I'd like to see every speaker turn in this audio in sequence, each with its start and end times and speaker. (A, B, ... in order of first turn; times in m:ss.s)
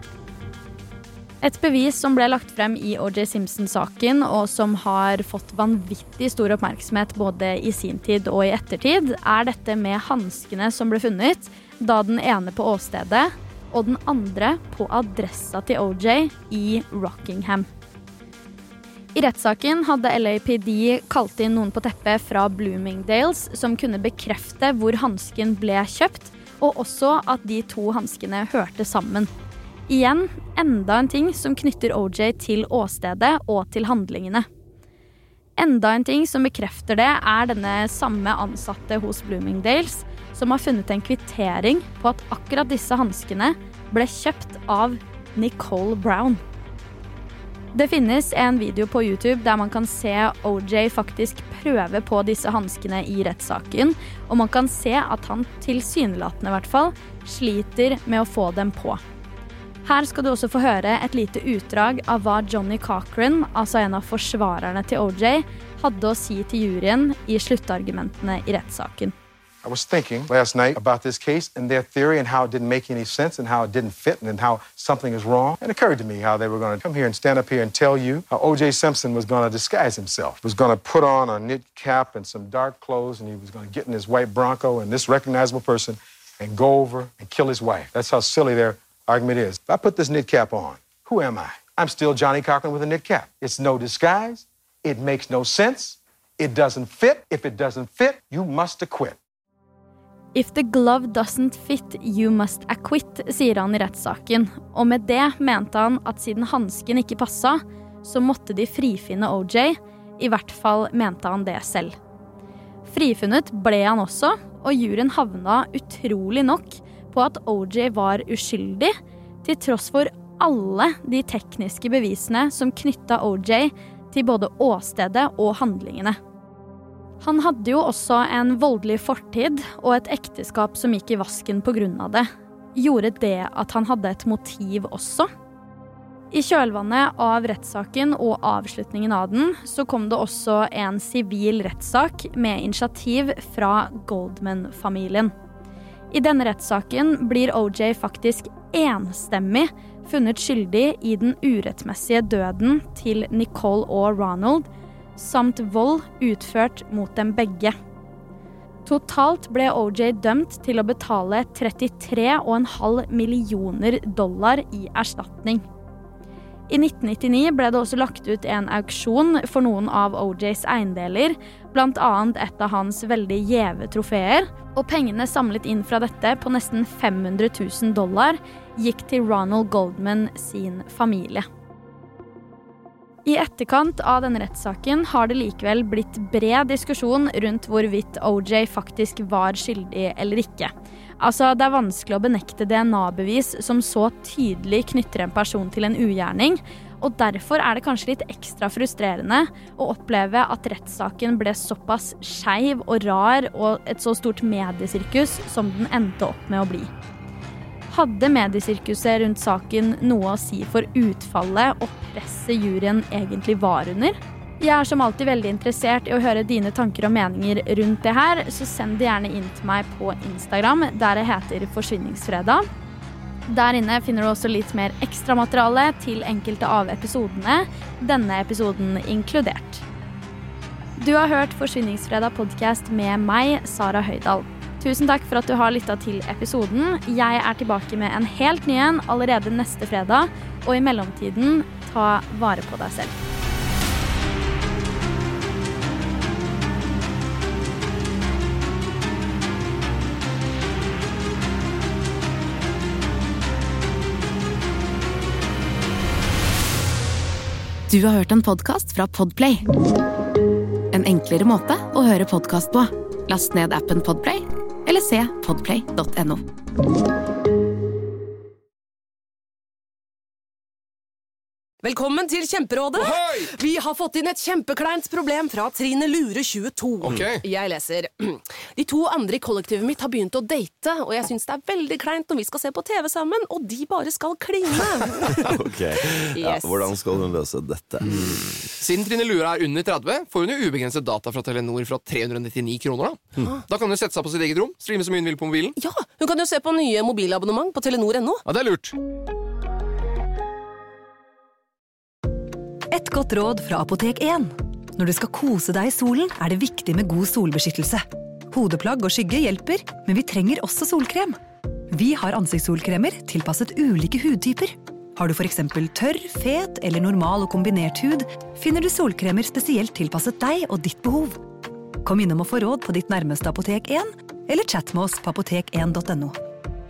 0:01.4-0:17.7 A
0:19.1-0:29.3 A
0:29.9-0:34.5 A
0:35.6-0:46.4 A
0:47.7-0:59.0 A
0:59.8-1:09.1 A
1:09.6-1:39.2 B
1:40.3-1:52.0 A
1:52.8-1:58.9 A
1:59.4-2:06.2 A
2:07.2-2:15.3 A
2:16.3-2:25.3 A
2:26.1-2:37.8 A
2:38.8-2:45.6 A
2:46.7-3:01.5 A
3:03.2-3:26.9 A
3:27.9-3:42.6 A
3:43.5-3:49.8 A
3:51.0-4:03.2 A
4:17.9-4:19.6 C
4:20.9-4:26.4 C
4:31.8-4:45.6 D
4:33.0-4:33.5 E
4:37.0-4:37.4 E
4:45.4-4:48.6 F
4:46.3-4:47.0 D
4:48.8-4:55.8 E
4:55.8-4:58.4 D
4:58.4-4:59.0 E
5:02.9-5:11.4 G
5:11.9-5:21.4 G
5:22.0-5:26.4 G